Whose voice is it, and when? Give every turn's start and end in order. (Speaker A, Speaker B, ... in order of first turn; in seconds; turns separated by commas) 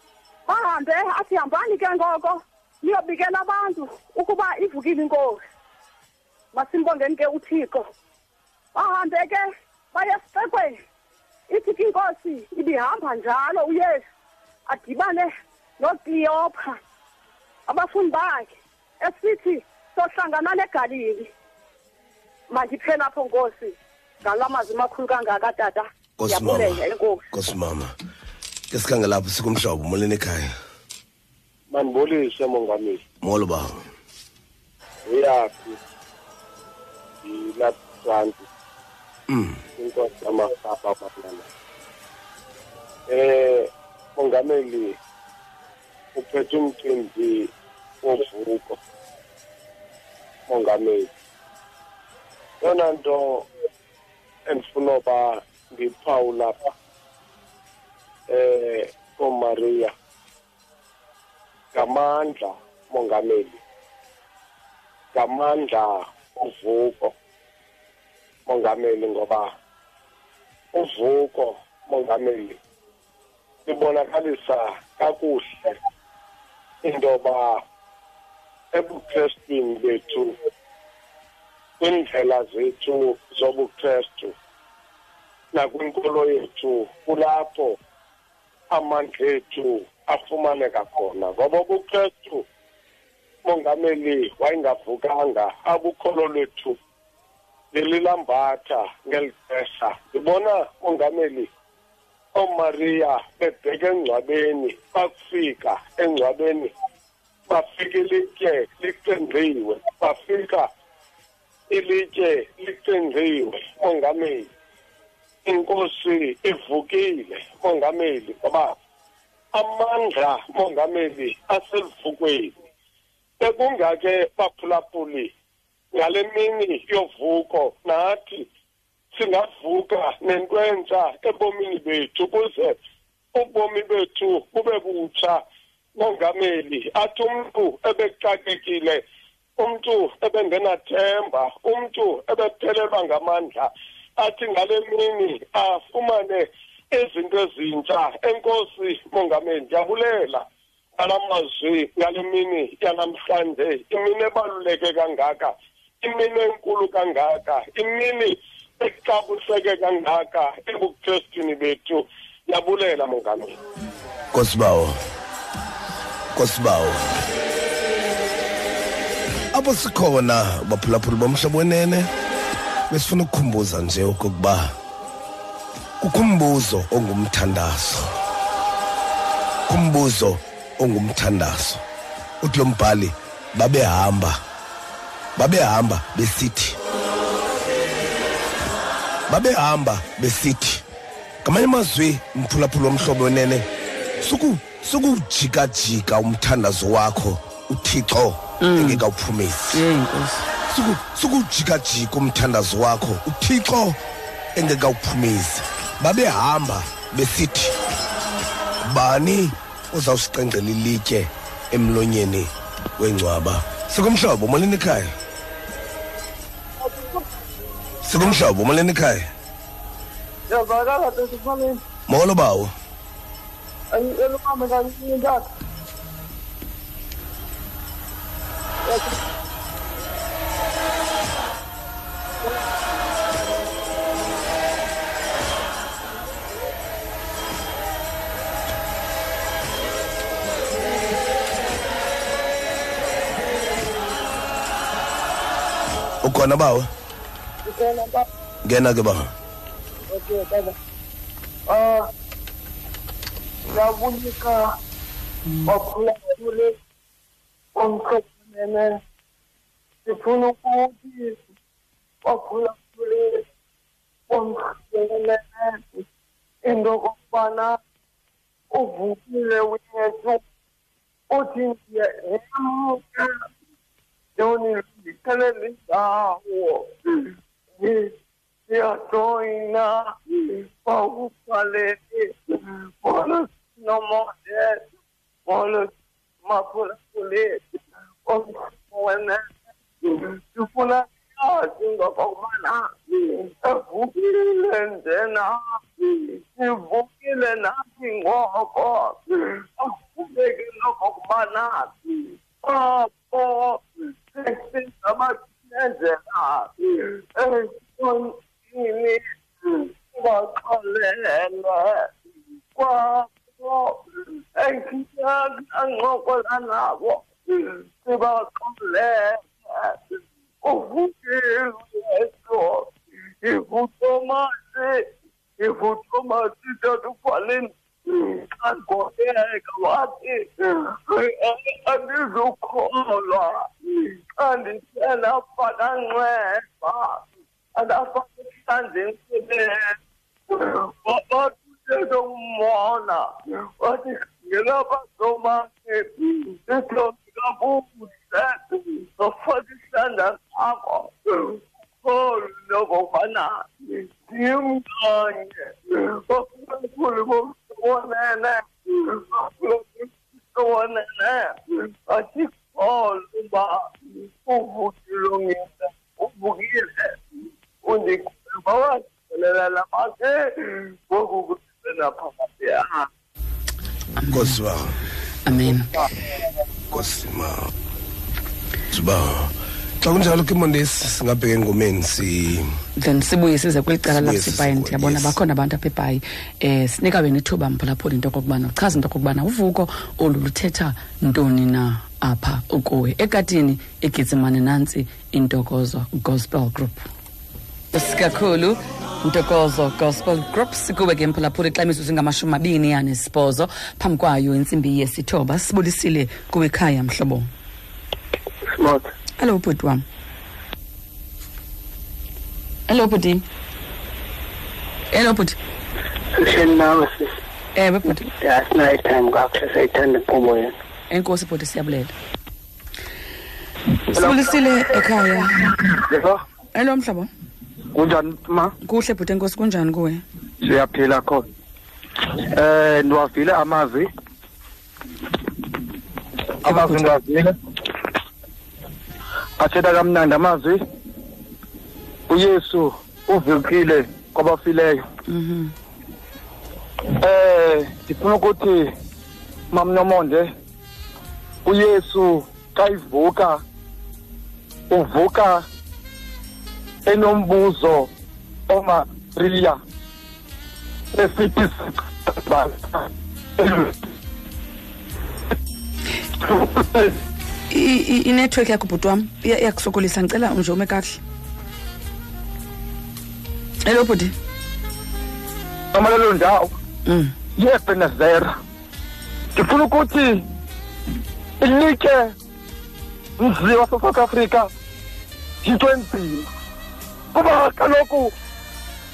Speaker A: 0.5-5.4, Speaker A: 6.5-7.9, Speaker A: 8.7-10.8, Speaker A: 11.5-14.0, Speaker A: 14.7-16.8, Speaker A: 17.7-21.3, Speaker A: 22.5-27.3, Speaker B: 26.2-27.9, Speaker B: 28.7-30.5, Speaker C: 31.7-33.0, Speaker B: 33.2-33.8, Speaker C: 35.1-35.7, Speaker C: 37.3-38.3, Speaker B: 39.3-39.6, Speaker C: 39.8-41.4, Speaker C: 43.1-43.5, Speaker C: 44.2-44.9, Speaker C: 46.2-47.4, Speaker C: 48.0-48.7, Speaker C: 50.5-51.1, Speaker C: 52.6-53.4, Speaker C: 54.5-56.5, Speaker C: 58.3-59.9, Speaker C: 61.8-63.5, Speaker C: 65.2-67.1, Speaker C: 68.5-69.5, Speaker C: 70.8-72.5, Speaker C: 73.7-75.6, Speaker C: 76.8-77.6, Speaker C: 78.7-80.3, Speaker C: 81.8-84.3, Speaker C: 85.5-87.8, Speaker C: 88.7-92.4, Speaker C: 93.5-96.7, Speaker C: 97.7-101.5, Speaker C: 102.4-106.7, Speaker C: 107.5-110.6, Speaker C: 111.7-114.4, Speaker C: 115.5-118.6, Speaker C: 119.5-122.5, Speaker C: 123.4-125.3, Speaker C: 126.0-128.4, Speaker C: 129.2-132.7, Speaker C: 133.4-135.4, Speaker C: 136.0-139.0, Speaker C: 139.6-143.6, Speaker C: 144.2-146.4, Speaker C: 146.9-150.4, Speaker C: 151.0-155.5, Speaker C: 156.0-163.5, Speaker B: 164.3-165.0, Speaker B: 166.3-167.0, Speaker B: 169.5-172.1, Speaker B: 172.9-174.8, Speaker B: 176.0-178.1, Speaker B: 179.7-181.8, Speaker B: 182.4-184.4, Speaker B: 185.4-186.8, Speaker B: 189.3-190.8, Speaker B: 191.4-193.7, Speaker B: 194.2-199.8, Speaker D: 198.6-199.0, Speaker D: 199.7-200.4, Speaker B: 200.7-204.0, Speaker B: 204.6-207.7, Speaker B: 208.8-215.1, Speaker E: 216.8-217.2, Speaker B: 218.0-219.3, Speaker E: 220.5-221.8, Speaker B: 222.1-222.7, Speaker E: 223.9-225.4, Speaker E: 228.8-229.2, Speaker B: 246.2-246.9, Speaker E: 247.7-248.3, Speaker B: 248.7-249.3, Speaker E: 250.1-250.7, Speaker E: 251.7-252.1, Speaker E: 253.7-254.6, Speaker E: 255.7-256.7, Speaker E: 257.8-259.0, Speaker E: 260.1-261.4, Speaker E: 262.2-263.4, Speaker E: 264.3-266.0, Speaker E: 266.6-267.8, Speaker E: 268.7-270.4, Speaker E: 271.3-273.4, Speaker E: 274.4-276.9, Speaker E: 277.8-278.1, Speaker E: 278.7-282.4, Speaker E: 283.0-284.8, Speaker E: 285.5-285.9, Speaker E: 286.4-287.6, Speaker E: 288.3-289.5, Speaker E: 290.0-299.2, Speaker E: 299.8-301.9, Speaker E: 302.6-303.8, Speaker E: 304.4-306.7, Speaker E: 307.4-312.1, Speaker E: 312.8-314.0, Speaker E: 314.6-320.0, Speaker E: 320.6-322.9, Speaker E: 323.4-325.0, Speaker E: 325.6-333.7, Speaker E: 334.4-337.2, Speaker E: 337.8-340.0, Speaker E: 340.5-343.3, Speaker E: 343.8-363.9, Speaker E: 364.4-367.2, Speaker E: 367.8-370.5, Speaker E: 371.1-373.1, Speaker D: 374.2-374.6, Speaker B: 374.3-375.0, Speaker D: 375.5-375.9, Speaker B: 376.9-377.7, Speaker B: 378.9-382.7, Speaker D: 383.0-397.1, Speaker B: 384.0-385.4, Speaker D: 397.9-407.5, Speaker F: 408.7-409.1, Speaker D: 409.4-410.0, Speaker D: 412.9-413.4, Speaker D: 415.1-415.6, Speaker F: 416.4-417.3, Speaker D: 417.8-418.3, Speaker F: 418.4-420.7, Speaker D: 421.1-422.1, Speaker D: 424.1-425.8, Speaker G: 424.1-424.5, Speaker G: 425.9-426.4, Speaker D: 426.7-427.3, Speaker G: 427.9-428.7, Speaker D: 428.8-430.2, Speaker G: 430.6-431.5, Speaker G: 432.5-434.1, Speaker G: 436.6-437.6, Speaker G: 439.6-440.8, Speaker G: 442.3-445.0, Speaker D: 445.3-445.7, Speaker G: 447.2-448.9, Speaker G: 449.7-450.5, Speaker G: 451.6-453.6, Speaker G: 454.9-455.6, Speaker G: 457.1-458.1, Speaker G: 458.7-459.8, Speaker G: 461.1-463.9, Speaker D: 467.7-471.2, Speaker D: 473.9-474.3, Speaker G: 475.9-476.7, Speaker D: 477.1-477.3, Speaker G: 477.6-478.6, Speaker G: 479.6-480.4, Speaker G: 481.6-482.3, Speaker G: 483.4-484.7, Speaker G: 485.6-486.5, Speaker G: 487.3-488.3